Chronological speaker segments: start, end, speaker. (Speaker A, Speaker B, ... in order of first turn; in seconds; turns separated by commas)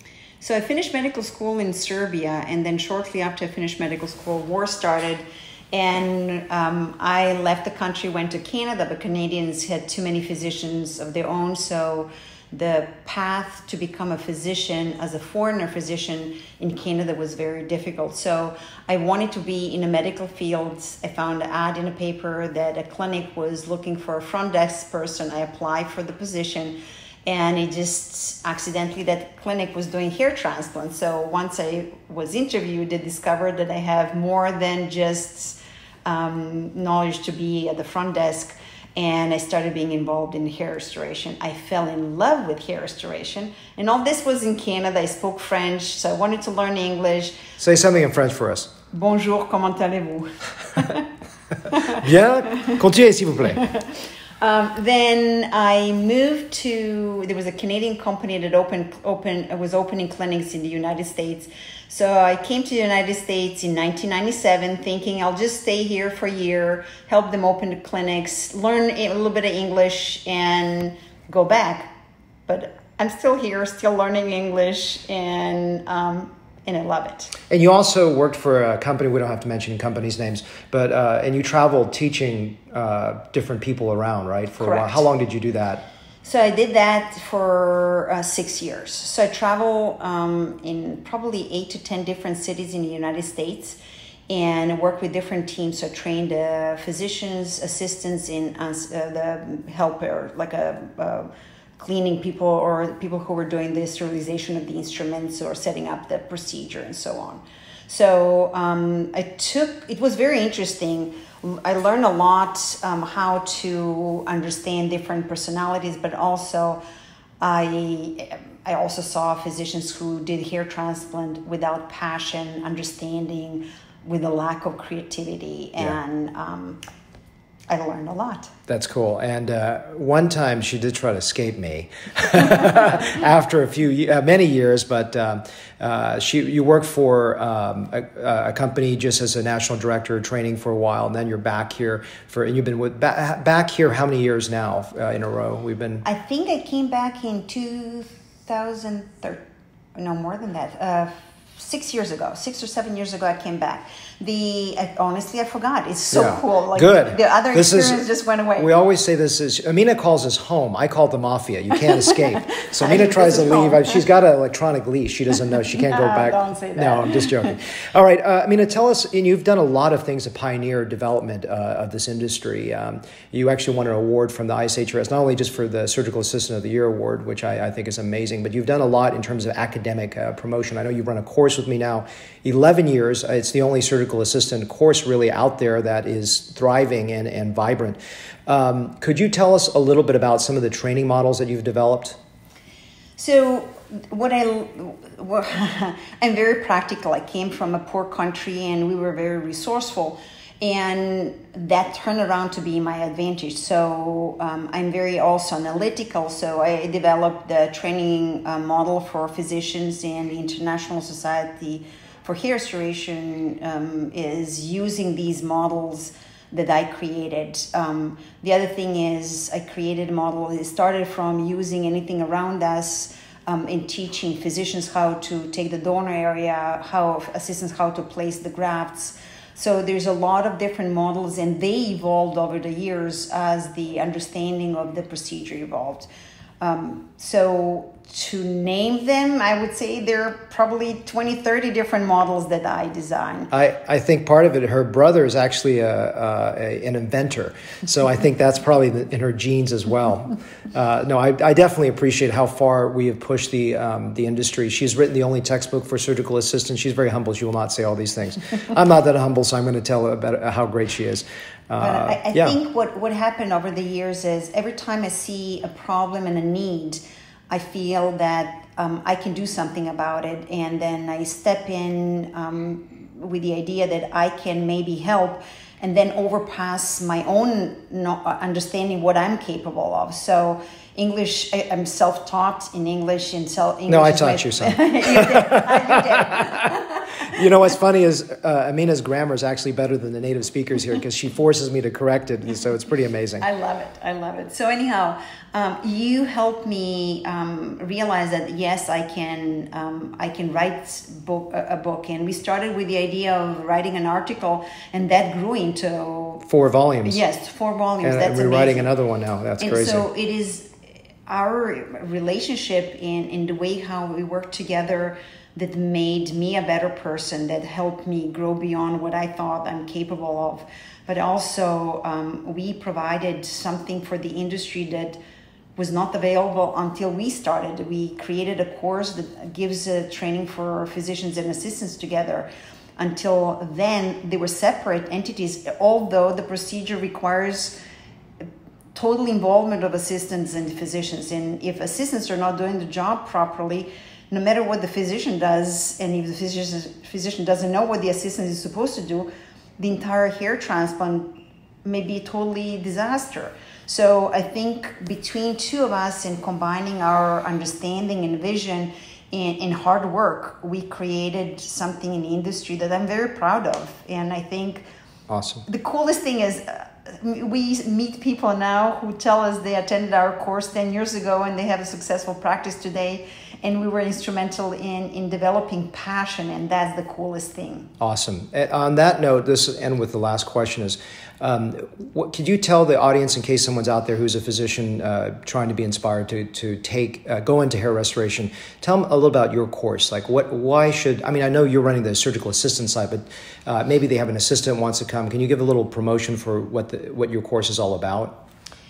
Speaker A: 0.4-47.4, Speaker B: 47.6-48.7, Speaker A: 48.9-51.1, Speaker A: 51.7-52.7, Speaker B: 52.0-53.6, Speaker A: 53.6-71.9, Speaker A: 72.5-77.3, Speaker B: 77.5-85.8, Speaker A: 84.6-85.0, Speaker A: 86.2-93.8, Speaker A: 94.3-116.8, Speaker A: 117.4-126.8, Speaker A: 127.7-128.5, Speaker B: 128.7-146.0, Speaker A: 146.0-149.4, Speaker A: 149.9-158.7, Speaker B: 156.1-158.0, Speaker B: 158.6-192.2, Speaker A: 162.8-164.0, Speaker A: 165.7-167.6, Speaker A: 193.2-236.1, Speaker A: 236.6-243.5, Speaker B: 243.5-262.6, Speaker A: 261.8-287.4, Speaker B: 283.9-286.4, Speaker B: 287.3-293.4, Speaker A: 293.4-306.4, Speaker B: 306.5-307.2, Speaker A: 307.0-308.9, Speaker B: 308.0-310.1, Speaker A: 309.6-310.7, Speaker A: 311.2-325.2, Speaker A: 325.8-337.8, Speaker A: 338.9-351.3, Speaker A: 351.8-364.8, Speaker B: 365.3-365.6, Speaker A: 365.6-377.9, Speaker B: 378.0-398.4